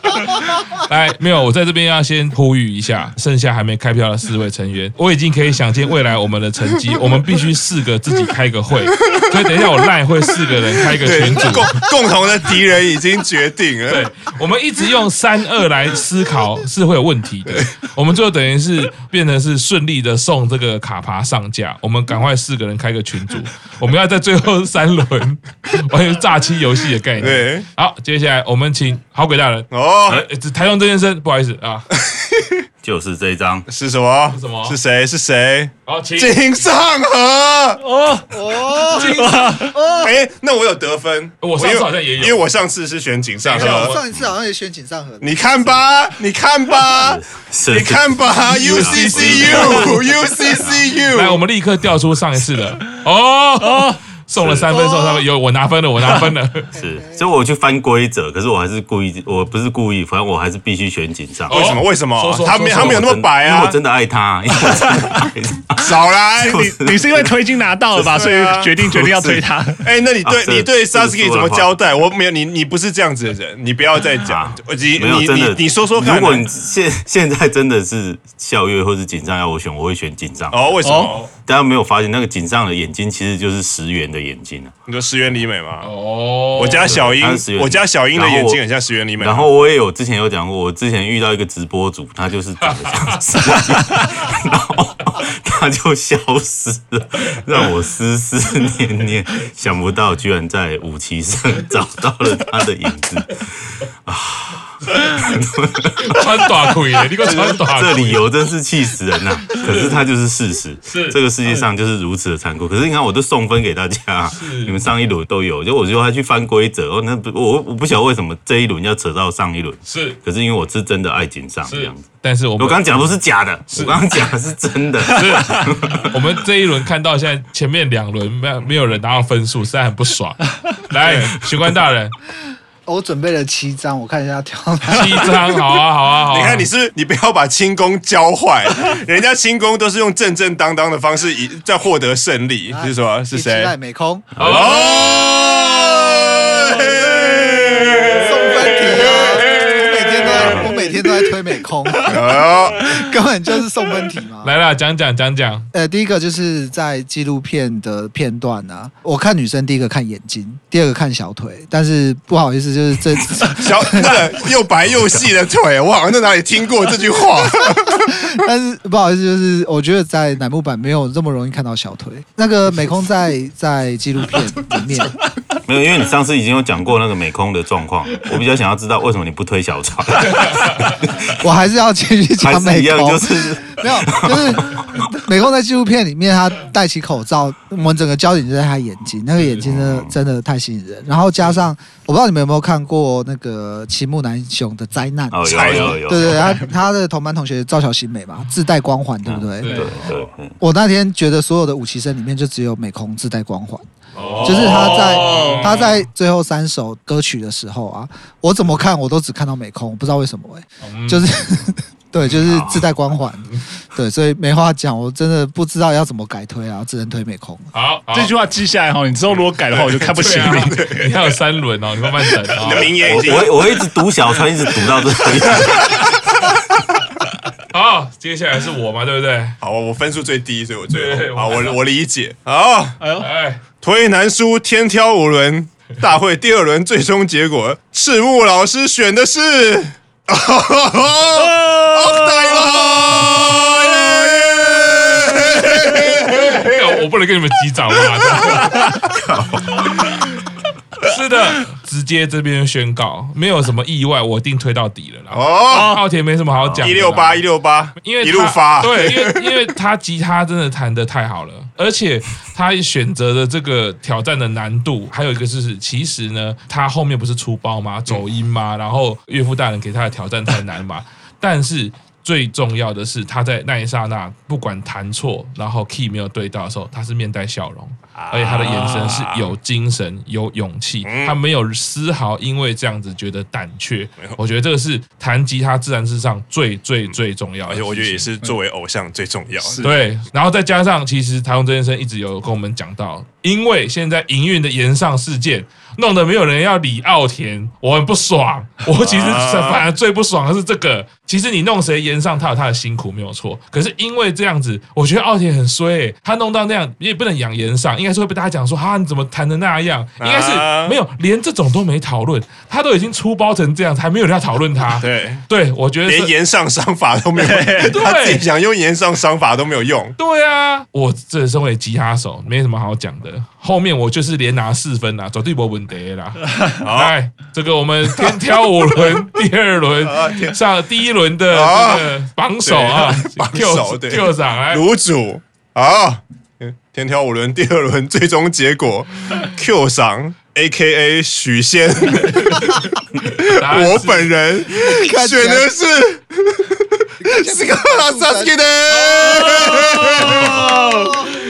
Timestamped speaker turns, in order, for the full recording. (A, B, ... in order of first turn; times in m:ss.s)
0:00.8-0:11.8 A
0:11.0-0:14.0 B
0:13.9-0:31.9 A
0:27.2-0:27.6 B
0:29.7-0:30.2 B
0:31.9-0:32.6 B
0:32.8-0:33.7 C
0:33.7-0:37.8 B
0:34.3-0:34.8 A
0:35.8-0:36.4 A
0:37.8-0:38.4 D
0:38.3-0:40.1 E
0:38.9-0:39.6 A
0:39.1-0:39.8 D
0:39.9-0:44.0 B
0:41.4-0:42.4 A
0:43.4-0:44.0 A
0:43.5-0:45.4 E
0:45.2-0:51.4 B
0:46.8-0:50.9 C
0:48.5-0:50.1 A
0:51.1-0:56.7 A
0:53.6-0:54.0 D
0:54.4-0:54.7 C
0:56.7-1:01.7 C
0:56.8-0:57.2 E
1:01.5-1:03.8 B
1:01.5-1:03.1 A
1:02.7-1:07.3 C
1:04.7-1:05.2 D
1:05.8-1:06.7 B
1:06.4-1:09.8 D
1:07.9-1:08.2 C
1:08.1-1:08.7 B
1:08.8-1:09.4 C
1:09.8-1:16.5 B
1:10.2-1:11.7 C
1:14.2-1:24.7 C
1:20.5-1:21.2 B
1:20.8-1:21.2 D
1:21.0-1:21.3 A
1:24.9-1:25.9 B
1:25.8-1:27.0 A
1:26.6-1:29.5 B
1:26.6-1:28.6 C
1:29.2-2:02.1 C
1:32.6-1:33.3 A
1:33.8-1:34.0 D
1:44.9-1:45.4 A
1:46.0-1:48.2 A
1:49.5-1:50.0 A
1:50.9-1:51.2 A
1:54.3-1:54.8 A
1:59.9-2:00.2 A
2:01.6-2:03.1 A
2:02.6-2:06.1 C
2:03.7-2:04.0 A
2:05.1-2:12.1 A
2:11.0-2:11.4 B
2:12.8-2:15.5 E
2:14.9-2:16.7 A
2:16.3-2:23.7 B
2:22.7-2:24.3 E
2:24.4-2:25.0 C
2:24.4-2:30.7 B
2:24.4-2:25.0 A
2:28.1-2:34.5 E
2:30.3-2:30.7 C
2:32.0-2:32.9 B
2:34.4-2:35.7 A
2:35.7-2:44.4 E
2:43.5-2:48.1 B
2:48.0-2:55.2 E
2:55.6-3:01.1 C
3:00.3-3:01.0 A
3:01.4-3:19.8 E
3:02.4-3:05.1 C
3:09.6-3:10.1 C
3:15.3-3:16.6 C
3:15.5-3:16.0 B
3:19.2-3:20.6 C
3:19.6-3:20.0 A
3:20.6-3:23.8 E
3:24.1-3:26.0 A
3:24.4-3:37.7 E
3:24.4-3:25.7 D
3:30.8-3:31.3 A
3:32.4-3:32.9 C
3:37.7-3:38.3 A
3:38.1-3:40.8 D
3:39.7-3:41.3 B
3:40.1-3:43.0 A
3:42.5-3:43.7 B
3:43.0-3:46.1 C
3:45.4-3:46.1 B
3:47.7-3:49.6 A
3:49.6-3:53.0 B
3:50.9-3:51.8 A
3:53.0-3:53.3 D
3:53.2-3:53.6 A
3:53.8-4:06.9 B
4:01.6-4:02.8 D
4:06.1-4:09.0 A
4:09.1-4:10.0 C
4:09.6-4:10.4 A
4:11.0-4:17.4 A
4:15.3-4:16.0 B
4:15.7-4:16.0 D
4:16.6-4:16.9 C
4:16.8-4:19.5 B
4:18.0-4:48.3 A
4:38.2-4:39.5 B
4:41.0-4:41.4 B
4:47.7-4:49.9 B
4:49.6-4:49.9 D
4:49.8-5:16.3 A
4:58.9-4:59.8 B
5:10.2-5:11.0 B
5:15.0-5:15.4 B
5:16.1-5:20.2 B
5:17.4-5:18.0 D
5:17.8-5:18.4 A
5:20.2-5:34.8 A
5:26.8-5:27.1 B
5:30.0-5:30.6 B
5:31.5-5:51.2 B
5:42.3-5:42.8 A
5:43.4-5:44.3 A
5:44.7-5:45.7 E
5:47.2-5:48.5 E
5:49.0-5:50.6 A
5:49.8-5:51.3 E